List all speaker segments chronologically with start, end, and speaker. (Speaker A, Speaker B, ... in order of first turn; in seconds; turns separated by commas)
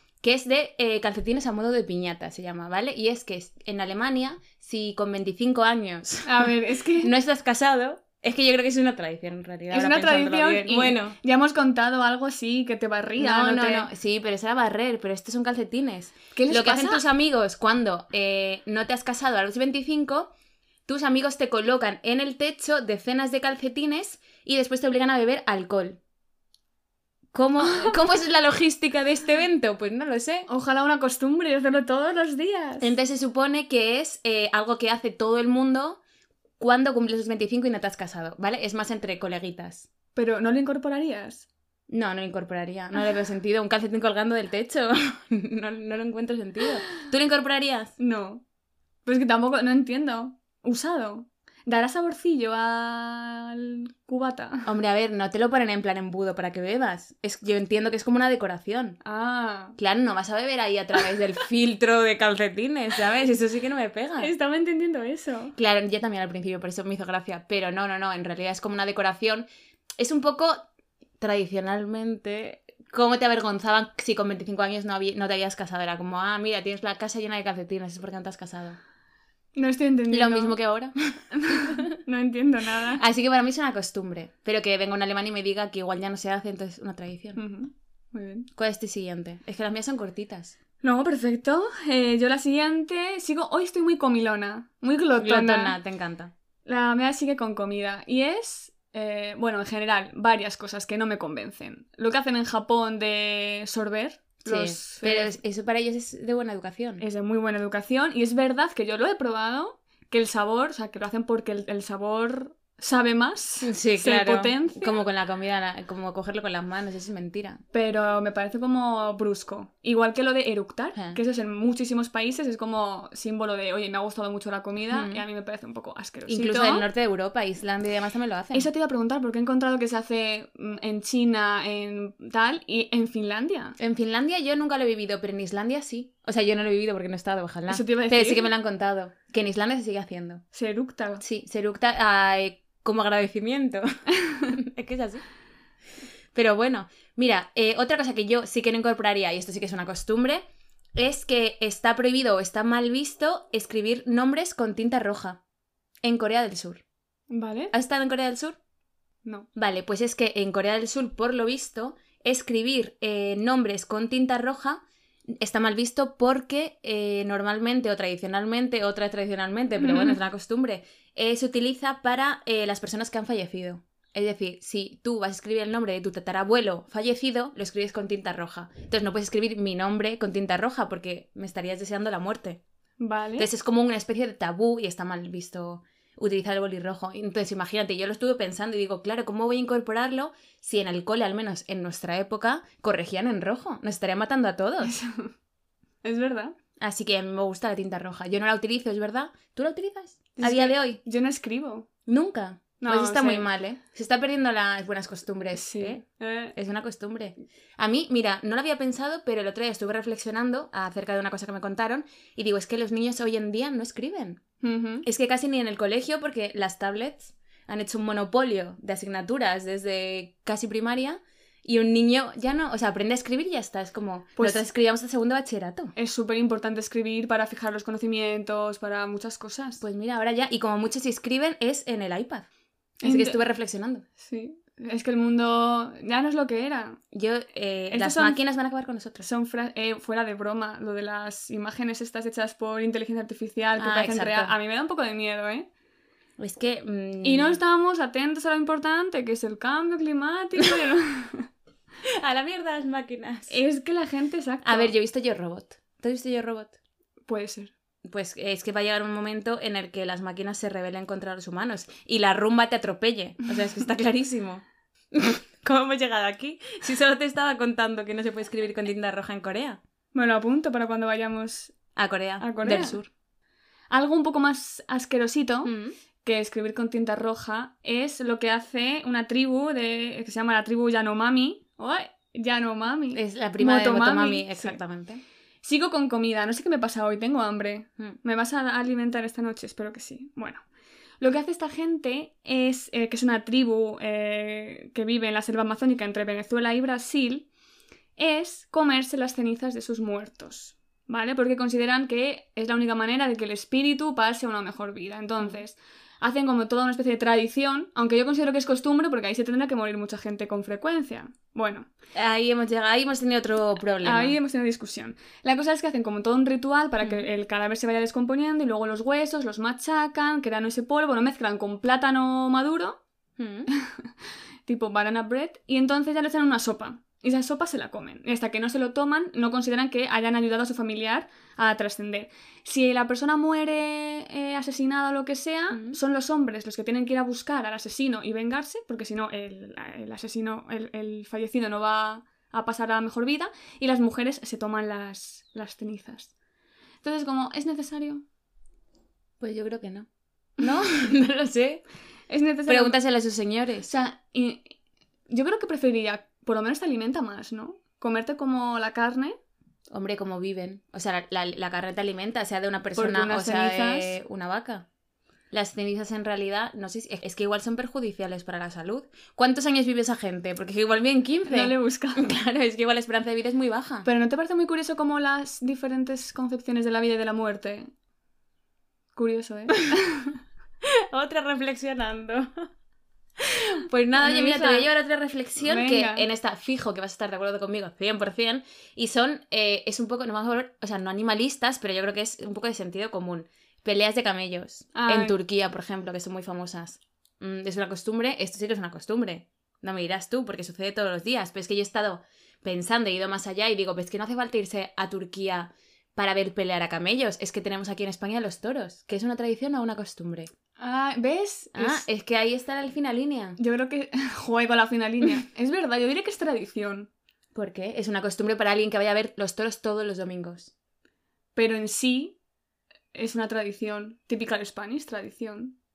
Speaker A: 0.2-6.5, Speaker B: 6.2-7.1, Speaker A: 7.0-11.2, Speaker B: 9.7-13.9, Speaker A: 13.2-20.3, Speaker B: 16.3-17.0, Speaker A: 20.9-26.0, Speaker A: 27.3-30.5, Speaker B: 27.6-28.0, Speaker B: 30.5-32.9, Speaker A: 32.8-36.0, Speaker A: 36.6-39.9, Speaker B: 40.1-41.5, Speaker A: 41.9-47.9, Speaker B: 48.0-48.4, Speaker B: 49.0-54.7, Speaker A: 54.6-59.0, Speaker B: 59.0-59.8, Speaker A: 59.8-64.3, Speaker B: 64.2-65.5, Speaker A: 65.5-69.5, Speaker A: 70.0-70.6, Speaker A: 71.2-78.8, Speaker B: 79.5-80.5, Speaker A: 80.1-81.8, Speaker B: 81.3-83.0, Speaker A: 83.0-87.4, Speaker B: 87.3-88.5, Speaker A: 88.5-90.5, Speaker B: 90.8-95.7, Speaker A: 95.2-96.3, Speaker B: 96.6-105.4, Speaker A: 104.4-107.0, Speaker B: 107.0-115.0, Speaker A: 113.6-117.6, Speaker B: 117.7-126.8, Speaker A: 120.9-121.2, Speaker A: 124.9-125.2, Speaker A: 126.3-128.7, Speaker B: 128.5-133.8, Speaker A: 133.8-140.4, Speaker B: 137.7-138.5, Speaker B: 140.5-141.2, Speaker A: 141.2-143.8, Speaker A: 144.4-145.2, Speaker A: 146.3-150.4, Speaker A: 150.9-155.4, Speaker A: 156.0-156.8, Speaker B: 157.3-157.7, Speaker A: 157.7-158.6, Speaker A: 159.5-164.8, Speaker A: 165.4-182.6, Speaker B: 169.8-170.2, Speaker B: 183.0-183.5, Speaker A: 183.4-194.9, Speaker B: 194.8-195.3, Speaker B: 196.0-196.5, Speaker A: 196.8-201.0, Speaker B: 200.3-201.9, Speaker A: 202.1-206.0, Speaker B: 202.8-203.5, Speaker B: 205.5-206.5, Speaker A: 206.5-214.4, Speaker B: 214.6-215.1, Speaker A: 215.0-225.9, Speaker B: 224.4-224.6, Speaker B: 225.9-229.8, Speaker A: 229.8-232.5, Speaker B: 233.0-233.4, Speaker A: 233.0-234.0, Speaker B: 234.2-237.0, Speaker A: 237.1-239.3, Speaker B: 237.9-238.4, Speaker B: 239.2-245.7, Speaker A: 243.8-244.5, Speaker A: 246.4-247.6, Speaker B: 247.2-251.5, Speaker A: 252.2-253.6, Speaker B: 253.5-254.9, Speaker A: 254.6-256.7, Speaker B: 257.3-257.7, Speaker A: 258.0-269.8, Speaker B: 270.1-271.7, Speaker A: 271.9-273.1, Speaker B: 272.4-273.0, Speaker B: 273.9-275.7, Speaker A: 275.6-275.9, Speaker B: 276.2-284.8, Speaker A: 283.1-285.2, Speaker B: 285.6-290.6, Speaker B: 291.2-297.5, Speaker B: 298.2-311.9, Speaker A: 312.1-314.4, Speaker B: 314.0-323.0, Speaker A: 317.0-317.3, Speaker A: 323.4-323.7, Speaker B: 323.7-324.1, Speaker B: 324.6-346.3, Speaker A: 335.7-336.0, Speaker B: 347.0-348.2, Speaker A: 349.4-350.1, Speaker A: 350.6-351.8, Speaker B: 352.3-353.0, Speaker A: 352.7-353.9, Speaker B: 353.9-354.7, Speaker B: 355.3-359.3, Speaker A: 359.9-364.9, Speaker B: 362.9-364.1, Speaker A: 365.5-374.1, Speaker B: 371.5-372.3, Speaker B: 374.0-377.9, Speaker B: 379.1-380.4, Speaker A: 380.8-382.7, Speaker A: 383.4-410.5, Speaker B: 384.1-384.9, Speaker B: 385.6-386.3, Speaker B: 394.9-395.3, Speaker B: 410.8-412.1, Speaker A: 411.8-413.6, Speaker B: 413.6-417.1, Speaker A: 417.5-420.7, Speaker B: 421.6-422.4, Speaker B: 423.1-425.8